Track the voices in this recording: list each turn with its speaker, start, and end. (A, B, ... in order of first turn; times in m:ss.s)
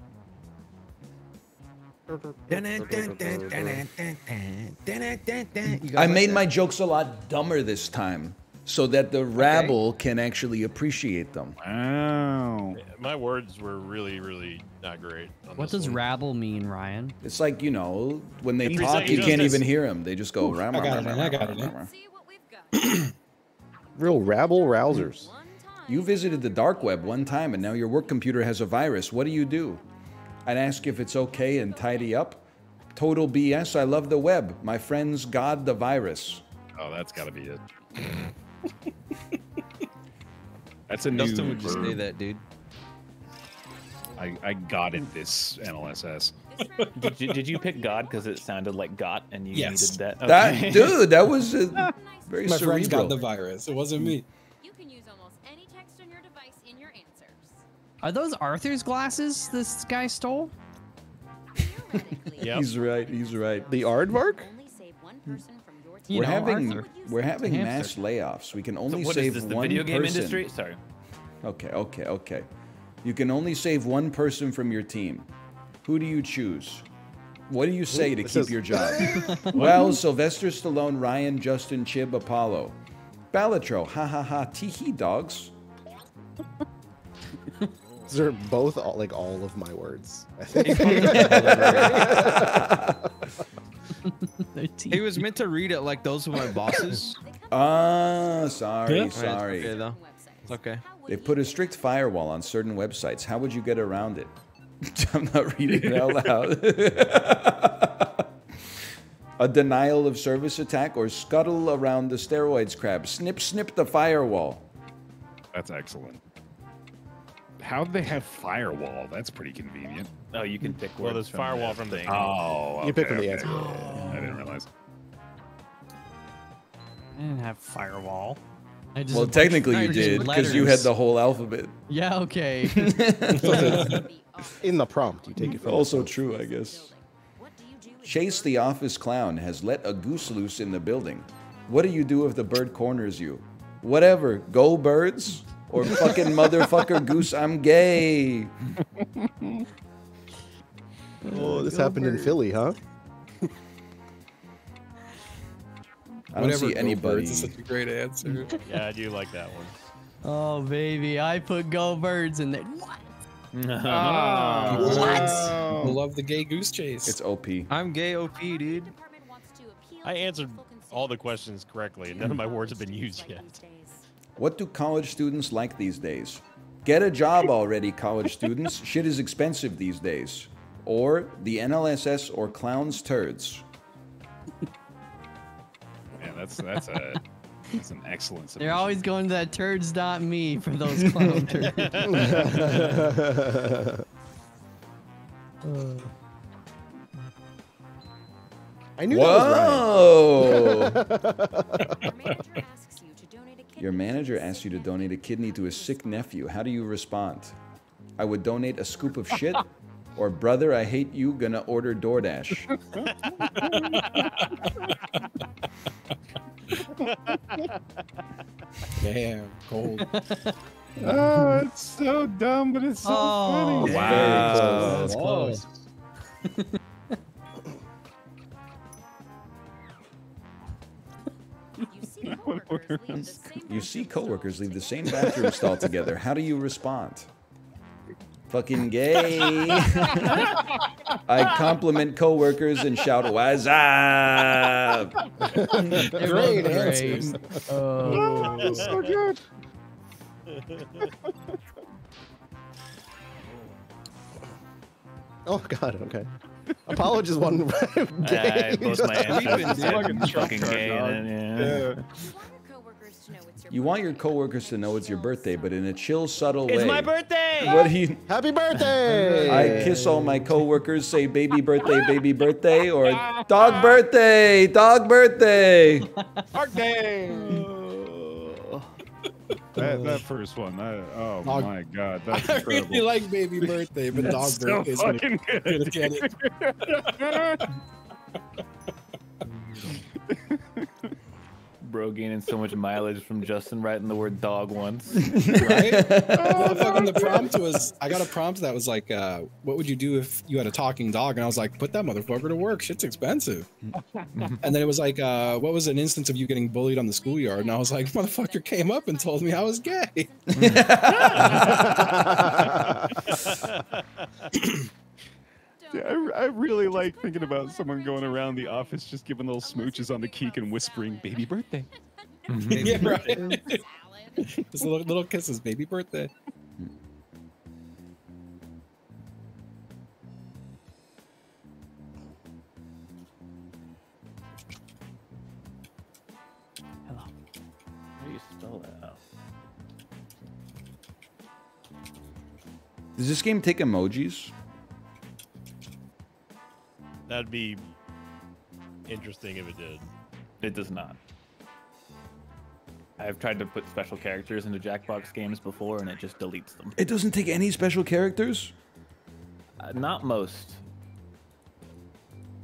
0:02.1-0:03.8 A
0:02.5-0:06.5 B
0:05.9-0:11.6 C
0:09.4-0:09.8 B
0:11.6-0:12.8 D
0:12.8-0:16.0 E
0:15.6-0:17.2 F
0:17.2-0:21.9 C
0:18.6-0:19.6 G
0:18.7-0:19.7 E
0:20.4-0:21.7 H
0:20.9-0:23.1 I
0:22.7-0:23.1 H
0:24.0-0:28.7 I
0:24.0-0:25.3 A
0:25.9-0:29.8 C
0:30.5-0:32.4 C
0:31.3-0:32.3 I
0:33.0-0:36.4 C
0:36.8-0:37.6 D
0:40.9-0:42.0 D
0:41.1-0:42.4 B
0:44.2-0:46.4 D
0:46.5-0:48.5 I
0:46.6-0:47.5 H
0:46.9-0:51.1 G
0:49.5-0:50.0 H
0:50.2-0:53.2 C
0:51.7-0:53.3 I
0:52.4-0:54.3 H
0:54.6-0:57.6 I
0:58.0-1:00.5 F
0:59.2-1:00.0 I
1:01.5-1:08.0 I
1:02.4-1:02.7 E
1:02.4-1:03.9 C
1:03.7-1:04.5 A
1:06.1-1:07.9 F
1:06.1-1:10.5 C
1:08.9-1:10.8 G
1:11.4-1:12.5 C
1:13.0-1:15.3 C
1:15.8-1:16.8 C
1:17.5-1:22.8 C
1:17.9-1:19.3 A
1:19.1-1:19.6 F
1:23.3-1:25.5 C
1:28.1-1:32.9 A
1:30.6-1:32.2 B
1:31.3-1:33.1 C
1:34.4-1:35.2 F
1:34.9-1:37.2 B
1:35.9-1:36.2 I
1:36.9-1:42.2 I
1:37.5-1:39.8 C
1:38.8-1:39.2 H
1:39.1-1:40.9 B
1:41.0-1:48.3 C
1:49.4-1:54.7 C
1:55.5-1:56.2 D
1:57.6-2:00.1 D
2:00.3-2:02.4 G
2:01.0-2:02.9 E
2:02.1-2:04.7 D
2:02.8-2:04.3 A
2:03.4-2:04.5 F
2:07.2-2:08.4 F
2:09.0-2:10.9 F
2:09.1-2:11.8 C
2:10.0-2:10.4 B
2:11.9-2:13.9 F
2:12.6-2:14.1 C
2:13.3-2:14.0 H
2:13.4-2:18.9 I
2:14.6-2:16.1 A
2:15.4-2:16.9 C
2:18.0-2:28.5 C
2:29.0-2:29.6 D
2:31.2-2:32.4 F
2:31.3-2:32.8 A
2:36.3-2:37.6 C
2:36.4-2:38.6 H
2:38.2-2:38.6 F
2:38.6-2:39.8 E
2:40.2-2:43.0 F
2:43.5-2:45.5 G
2:43.9-2:46.0 B
2:44.7-2:47.2 H
2:47.1-2:47.7 C
2:47.7-2:48.9 B
2:48.0-2:54.0 I
2:50.0-2:53.6 E
2:54.4-3:03.6 C
3:06.2-3:09.0 D
3:08.6-3:13.0 F
3:11.0-3:11.4 C
3:11.7-3:12.7 E
3:12.0-3:14.0 A
3:15.7-3:16.1 A
3:19.0-3:22.0 A
3:19.1-3:21.0 C
3:21.8-3:26.6 I
3:23.8-3:27.6 C
3:28.2-3:32.7 C
3:33.0-3:34.3 D
3:33.6-3:35.1 H
3:37.1-3:37.8 E
3:39.0-3:40.1 H
3:40.0-3:40.5 F
3:41.0-3:45.1 D
3:41.1-3:41.6 F
3:43.0-3:45.6 F
3:43.8-3:45.2 C
3:44.1-3:45.0 A
3:44.9-3:45.6 H
3:46.4-3:46.8 F
3:51.9-3:55.8 I
3:52.2-3:53.3 D
3:53.5-3:57.3 C
3:58.5-4:00.5 C
4:00.3-4:00.6 D
4:01.2-4:05.2 C
4:01.4-4:01.7 D
4:05.5-4:06.9 A
4:05.8-4:09.4 H
4:06.1-4:09.0 F
4:08.5-4:09.0 E
4:10.5-4:11.1 E
4:15.5-4:16.3 A
4:16.9-4:19.7 A
4:16.9-4:17.2 D
4:18.2-4:21.9 G
4:19.2-4:20.9 B
4:19.5-4:22.0 D
4:22.1-4:27.1 I
4:23.7-4:28.2 C
4:26.7-4:27.9 G
4:27.6-4:28.2 I
4:28.3-4:30.0 A
4:28.8-4:30.5 F
4:29.5-4:36.1 C
4:33.0-4:34.0 D
4:36.2-4:36.5 F
4:36.5-4:38.7 D
4:37.3-4:37.7 F
4:39.5-4:39.8 H
4:39.8-4:47.7 D
4:41.4-4:41.7 H
4:42.3-4:46.3 H
4:50.3-4:50.9 D
4:51.8-4:55.6 G
4:55.2-4:57.0 C
4:55.5-5:03.7 H
4:56.4-4:57.4 D
5:04.2-5:10.7 H
5:04.3-5:04.6 G
5:06.9-5:13.7 I
5:10.5-5:11.8 C
5:11.3-5:11.9 D
5:13.4-5:13.8 E
5:14.5-5:14.9 H
5:15.8-5:25.1 I
5:15.9-5:21.9 D
5:22.5-5:23.0 G
5:22.7-5:23.8 H
5:22.7-5:23.4 B
5:24.4-5:26.3 H
5:38.2-5:39.2 G
5:43.2-5:44.5 C
5:47.3-5:47.9 E
5:49.1-5:50.1 E
5:50.6-5:51.2 G
5:53.2-5:57.0 G
5:57.0-5:58.7 C
5:59.8-6:00.8 G